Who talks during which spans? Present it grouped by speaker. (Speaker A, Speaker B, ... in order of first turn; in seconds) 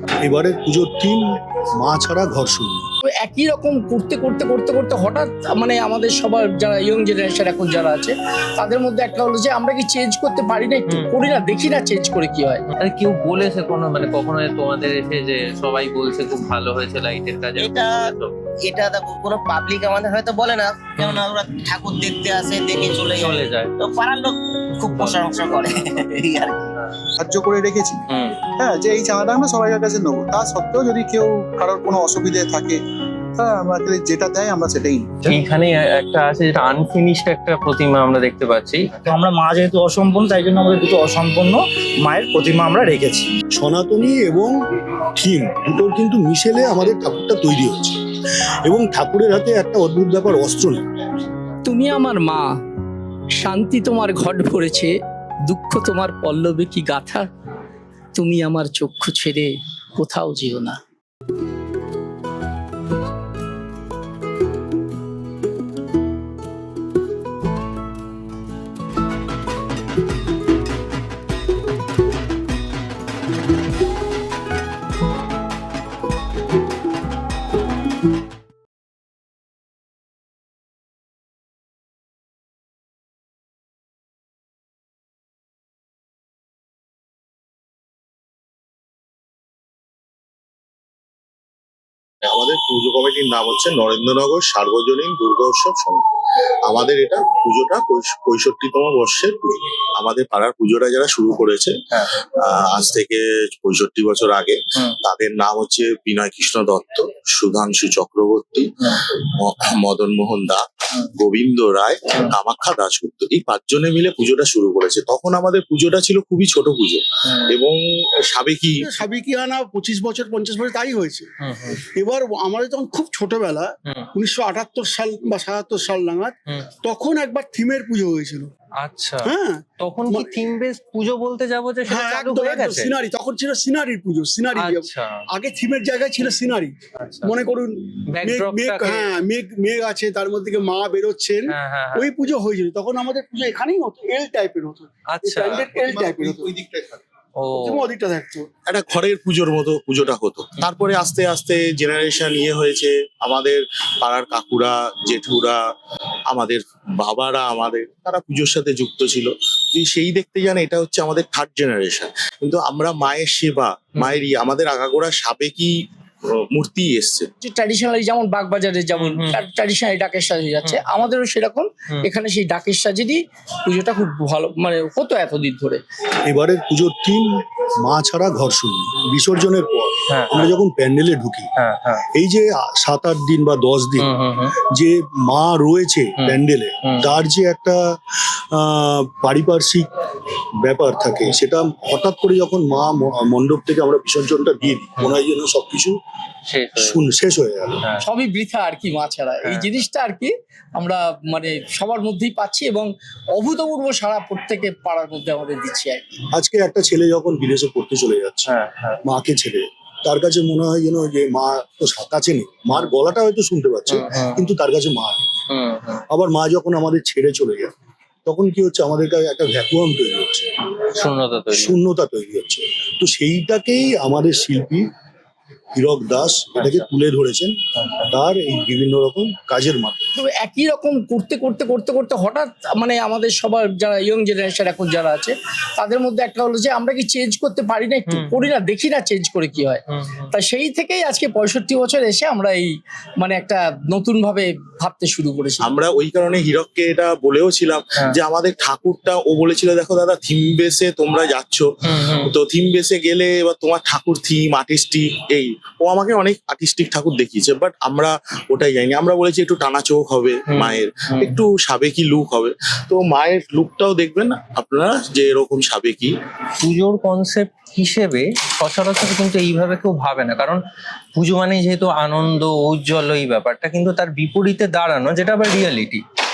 Speaker A: 0.2-2.9, 43.5-44.5, 45.1-48.0, 48.6-50.8, 176.2-181.5, 182.1-189.9, 190.6-196.0, 196.8-197.8, 206.3-208.5, 209.0-215.2, 216.1-217.7, 218.2-220.5, 221.5-224.9, 225.8-227.6, 228.1-230.0
Speaker B: 3.0-12.6, 51.6-52.6, 53.4-57.3, 58.1-60.8, 167.4-175.8, 198.0-206.2, 230.2-239.8, 240.3-245.7
Speaker C: 10.9-11.1, 12.7-18.3, 21.0-21.2, 22.7-23.7, 24.9-25.3, 28.1-28.4, 35.2-39.1, 121.4-121.8, 128.8-132.9, 134.6-135.2, 137.0-137.4, 138.1-139.1, 141.5-142.2, 145.1-145.7, 147.4-147.9, 168.9-169.4, 180.1-180.5, 181.6-182.0, 184.0-184.5, 186.2-187.1, 196.5-197.0, 208.5-209.0, 213.9-214.4, 215.5-216.0, 220.9-221.8, 226.6-226.8, 227.8-228.1, 238.1-238.4, 239.9-240.3, 251.8-252.3, 260.5-261.3, 266.6-270.6, 271.1-276.0
Speaker D: 17.6-18.1, 18.6-26.7
Speaker E: 27.2-28.0, 28.6-32.8, 33.4-35.2, 145.8-146.8
Speaker F: 39.0-43.3
Speaker G: 92.2-96.0, 96.6-118.9, 148.7-155.6, 156.3-167.3, 245.6-266.2
Speaker H: 118.8-121.3, 122.0-128.5, 129.2-130.4, 131.8-146.5, 147.5-148.5